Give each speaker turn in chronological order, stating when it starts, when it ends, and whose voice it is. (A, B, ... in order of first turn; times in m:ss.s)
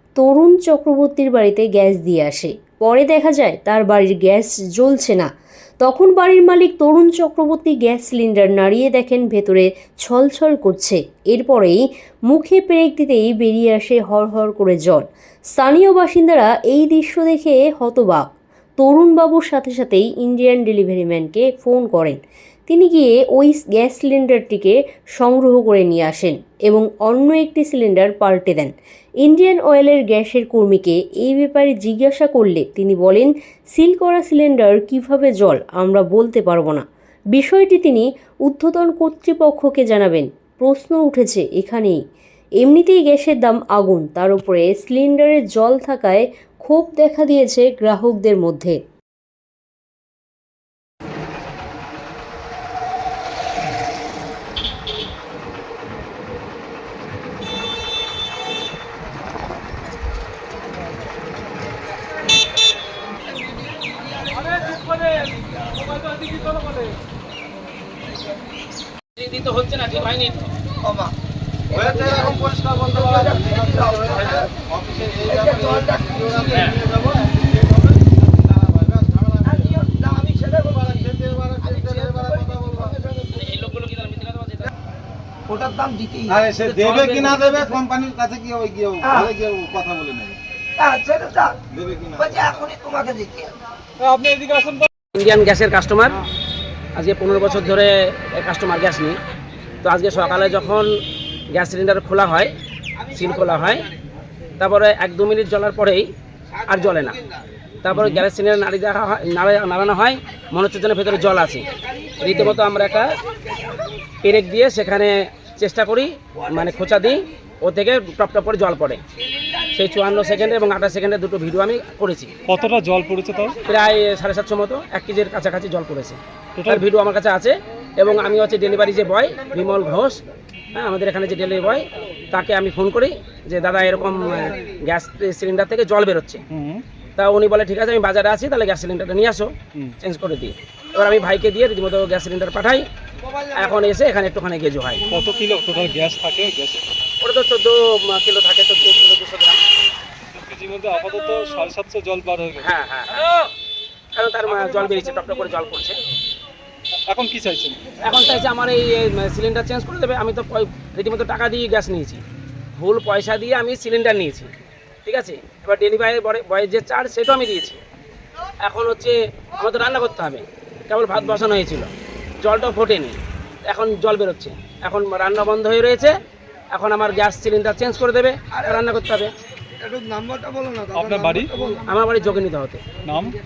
0:00.2-0:05.3 A
0:05.8-0:11.8 A
0:12.3-0:15.0 A
0:15.6-0:18.2 A
0:18.8-0:28.7 A
0:29.2-0:36.8 A
0:37.3-0:42.0 A
0:42.6-0:48.8 A
1:04.5-1:05.3 B
1:05.9-1:06.9 B
1:09.2-1:10.5 C
1:10.8-1:11.1 D
1:11.7-1:17.7 E
1:11.8-1:12.2 D
1:13.0-1:14.1 D
1:15.5-1:16.2 D
1:16.5-1:16.8 C
1:18.6-1:19.5 E
1:19.6-1:21.1 D
1:21.0-1:22.7 E
1:21.8-1:23.3 D
1:23.3-1:24.7 C
1:25.5-1:26.4 D
1:26.3-1:30.4 E
1:26.5-1:27.7 C
1:30.8-1:31.6 D
1:31.7-1:32.5 E
1:32.3-1:33.5 D
1:34.0-1:34.9 B
1:35.1-1:36.2 C
1:37.0-1:39.2 C
1:39.8-1:40.9 C
1:41.5-1:42.5 C
1:43.1-1:43.8 C
1:44.6-1:46.1 C
1:46.7-1:47.2 C
1:47.8-1:51.7 C
1:47.9-1:48.2 B
1:52.2-1:53.1 C
1:54.2-1:59.0 C
1:59.7-2:02.3 C
2:02.4-2:03.6 B
2:03.7-2:10.2 C
2:06.6-2:06.8 B
2:10.7-2:16.4 C
2:16.5-2:16.8 B
2:17.2-2:22.8 C
2:23.5-2:25.1 C
2:25.1-2:26.8 B
2:27.2-2:29.6 C
2:30.3-2:32.7 B
2:32.6-2:33.2 C
2:34.2-2:36.0 C
2:37.1-2:37.8 B
2:38.0-2:42.2 C
2:42.8-2:44.5 C
2:45.0-2:47.8 C
2:48.6-2:51.9 C
2:52.4-2:53.2 C
2:53.7-2:56.2 C
2:56.7-2:59.3 C
2:59.8-3:01.8 D
3:00.9-3:01.5 B
3:01.9-3:02.8 C
3:03.1-3:03.3 B